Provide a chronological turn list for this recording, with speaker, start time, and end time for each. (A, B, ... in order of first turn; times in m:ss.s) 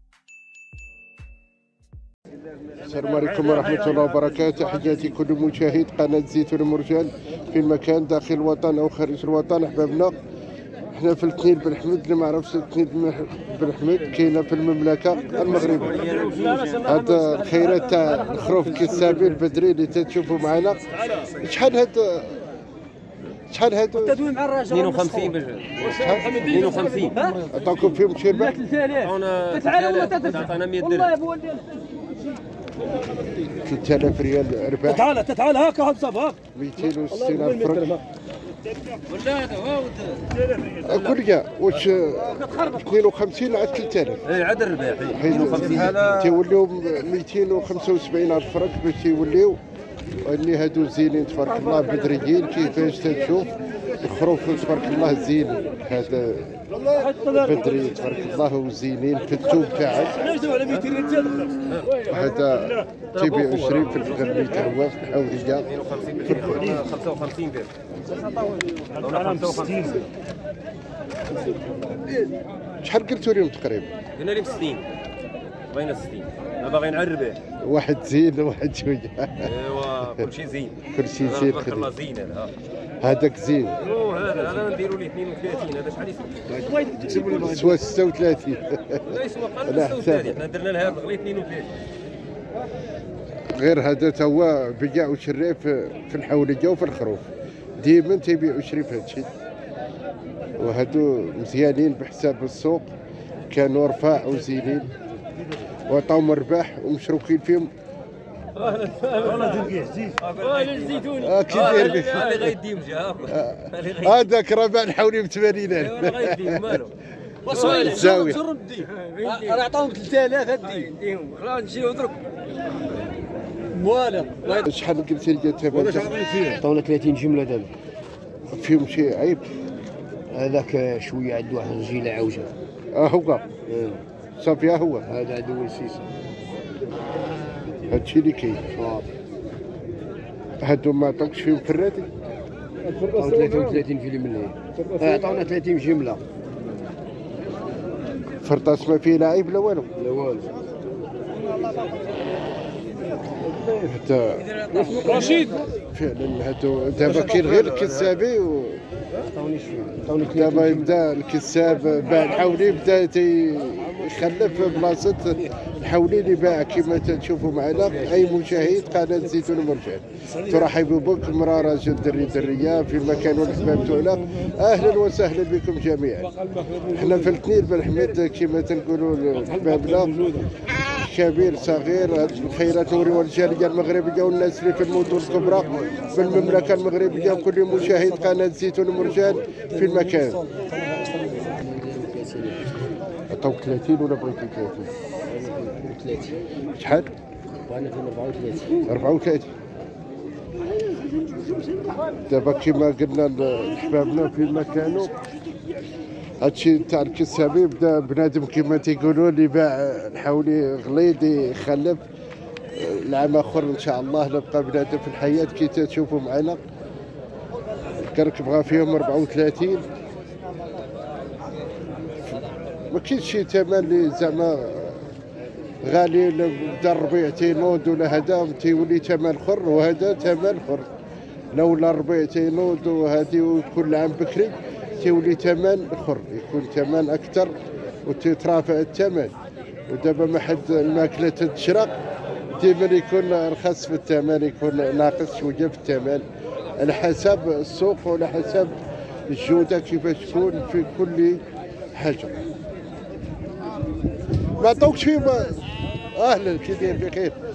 0:02.8-0:10.2 A
0:10.9-0:16.2 A
0:15.3-0:16.9 B
0:16.8-0:22.4 A
0:23.5-0:24.2 A
0:24.4-0:24.7 C
0:24.7-0:25.8 B
0:25.8-0:26.6 A
0:26.4-0:27.2 B
0:27.0-0:27.4 C
0:27.4-0:28.6 A
0:28.6-0:29.0 C
0:29.0-0:31.2 B
0:29.7-0:30.3 C
0:33.6-0:35.2 A
0:35.2-0:36.4 C
0:36.5-0:38.0 A
0:39.1-0:40.2 B
0:40.8-0:44.2 A
0:44.2-0:46.4 B
0:45.1-0:49.6 A
0:50.2-0:53.5 A
0:54.0-0:56.6 A
0:57.2-1:00.3 A
1:00.5-1:01.5 C
1:01.7-1:02.0 B
1:02.0-1:05.7 A
1:03.1-1:04.6 B
1:05.5-1:07.7 B
1:06.3-1:06.7 A
1:08.9-1:10.1 B
1:12.8-1:13.9 A
1:14.2-1:14.8 B
1:15.7-1:17.4 B
1:17.6-1:19.5 A
1:19.4-1:22.5 B
1:20.9-1:21.9 A
1:23.0-1:23.8 A
1:23.8-1:26.4 B
1:26.5-1:27.8 D
1:27.3-1:29.0 A
1:29.1-1:31.7 B
1:29.6-1:30.4 A
1:33.5-1:39.3 A
1:40.6-1:42.9 A
1:43.5-1:44.9 A
1:45.9-1:47.7 A
1:48.6-1:54.2 B
1:51.2-1:52.5 A
1:53.3-1:56.8 A
1:55.8-1:56.9 B
1:57.4-1:58.2 B
1:57.5-2:00.8 D
1:57.6-1:58.4 A
1:58.7-1:59.6 B
2:03.9-2:04.3 D
2:04.4-2:06.2 A
2:05.7-2:07.7 D
2:08.5-2:09.4 A
2:10.3-2:12.5 D
2:12.9-2:13.5 A
2:13.7-2:14.0 D
2:14.4-2:15.0 A
2:15.0-2:16.0 D
2:17.9-2:18.6 A
2:18.7-2:19.1 D
2:20.6-2:22.1 A
2:23.0-2:26.2 D
2:28.4-2:29.9 A
2:30.0-2:30.5 D
2:33.7-2:34.6 A
2:34.7-2:35.7 D
2:35.9-2:38.8 A
2:37.2-2:37.6 B
2:39.3-2:40.9 D
2:40.2-3:00.2 A
3:00.9-3:10.4 A
3:07.8-3:08.3 D
3:10.5-3:11.4 C
3:11.4-3:12.7 D
3:13.3-3:14.9 A
3:15.3-3:16.4 D
3:16.8-3:17.1 A
3:17.6-3:18.8 D
3:18.9-3:19.5 A
3:22.3-3:25.1 A
3:26.4-3:32.0 A
3:32.7-3:36.6 A
3:38.0-3:39.8 A
3:42.9-3:45.1 A
3:45.8-3:50.9 A
3:51.5-3:57.5 A
3:58.0-3:59.3 A
3:59.9-4:01.9 A
4:02.6-4:06.2 A
4:06.8-4:08.7 A
4:09.3-4:11.4 A
4:11.9-4:12.3 A
4:14.6-4:17.4 A